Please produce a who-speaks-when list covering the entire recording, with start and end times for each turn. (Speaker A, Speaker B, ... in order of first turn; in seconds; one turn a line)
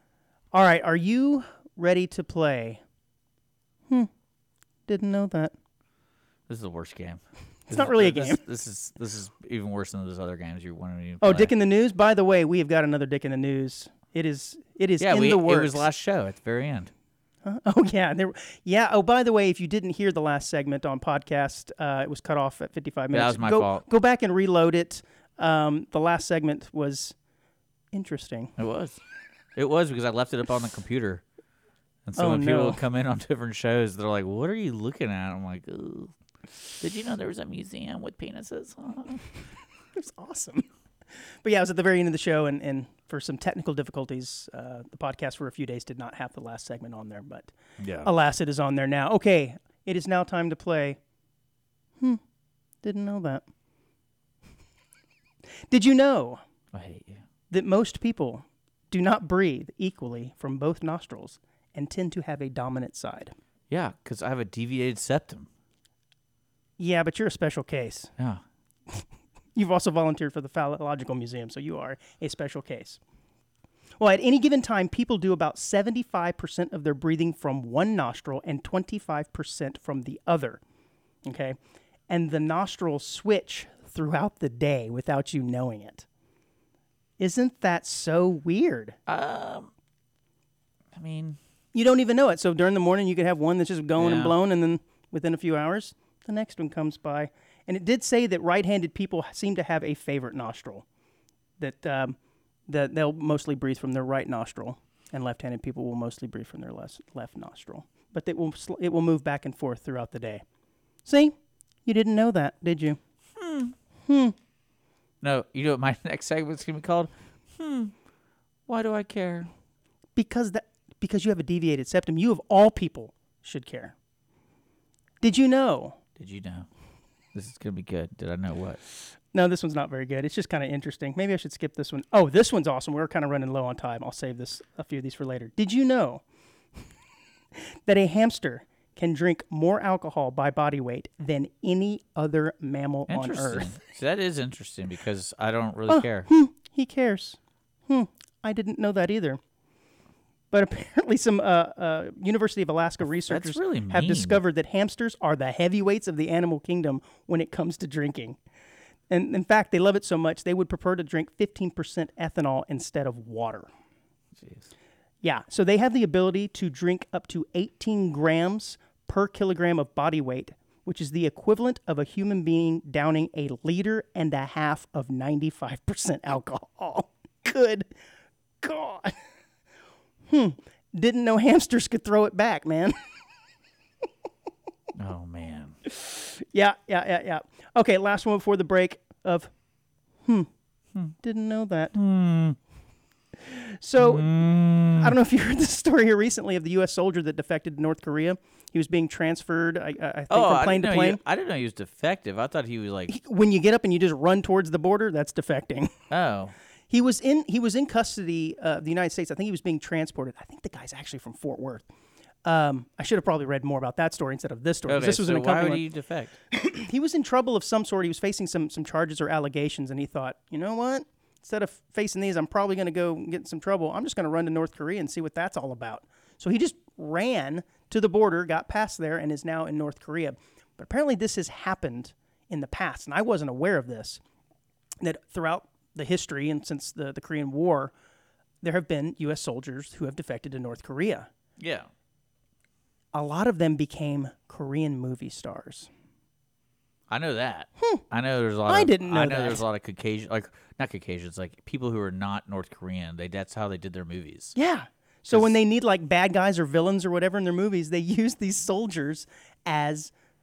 Speaker A: 0.5-2.8
Speaker A: 4.9-5.5
Speaker B: 6.5-11.5
Speaker A: 7.7-8.4
Speaker A: 11.2-15.8
Speaker B: 15.0-16.9
Speaker A: 17.4-27.1
Speaker B: 23.1-23.8
Speaker A: 27.9-28.5
Speaker B: 28.6-29.0
Speaker B: 29.6-31.2
Speaker B: 32.0-36.1
Speaker A: 32.2-32.8
Speaker B: 36.8-39.2
Speaker A: 39.9-47.5
Speaker B: 47.8-48.1
Speaker A: 48.0-51.0
Speaker A: 52.8-53.5
Speaker A: 55.7-56.4
Speaker B: 56.7-57.2
Speaker A: 57.5-63.3
Speaker B: 63.7-65.5
Speaker A: 66.8-68.1
Speaker A: 68.9-73.0
Speaker A: 74.0-80.6
Speaker A: 81.2-81.6
Speaker A: 82.1-86.0
Speaker A: 87.2-89.0
Speaker B: 89.1-89.7
Speaker B: 90.9-91.4
Speaker A: 91.7-100.8
Speaker B: 94.0-94.3
Speaker A: 101.6-110.4
Speaker A: 111.0-113.0
Speaker B: 113.4-113.7
Speaker A: 114.0-114.3
Speaker B: 115.2-117.9
Speaker B: 118.7-119.5
Speaker A: 120.2-123.9
Speaker A: 125.2-126.0
Speaker B: 126.2-126.7
Speaker B: 127.3-128.8
Speaker A: 129.3-136.2
Speaker A: 137.5-143.8
Speaker B: 143.1-146.3
Speaker A: 145.9-149.4
Speaker A: 150.5-158.4
Speaker B: 153.0-154.4
Speaker A: 159.1-163.7
Speaker B: 164.4-164.7
Speaker A: 165.2-177.9
Speaker A: 178.6-179.2
Speaker A: 180.3-183.0
Speaker B: 184.9-185.8
Speaker A: 185.8-189.5
Speaker A: 191.2-191.9
Speaker B: 191.9-192.6
Speaker A: 193.4-194.3
Speaker B: 194.0-195.1
Speaker A: 194.9-201.2
Speaker B: 200.3-203.1
Speaker A: 203.1-205.9
Speaker B: 206.1-206.5
Speaker A: 206.9-211.8
Speaker A: 212.4-215.8
Speaker B: 214.9-216.3
Speaker A: 216.5-234.2
Speaker A: 235.0-237.9
Speaker A: 238.6-241.3
Speaker B: 241.6-241.9
Speaker A: 243.1-245.9
Speaker B: 247.1-254.6
Speaker A: 248.7-249.6
Speaker A: 254.5-260.1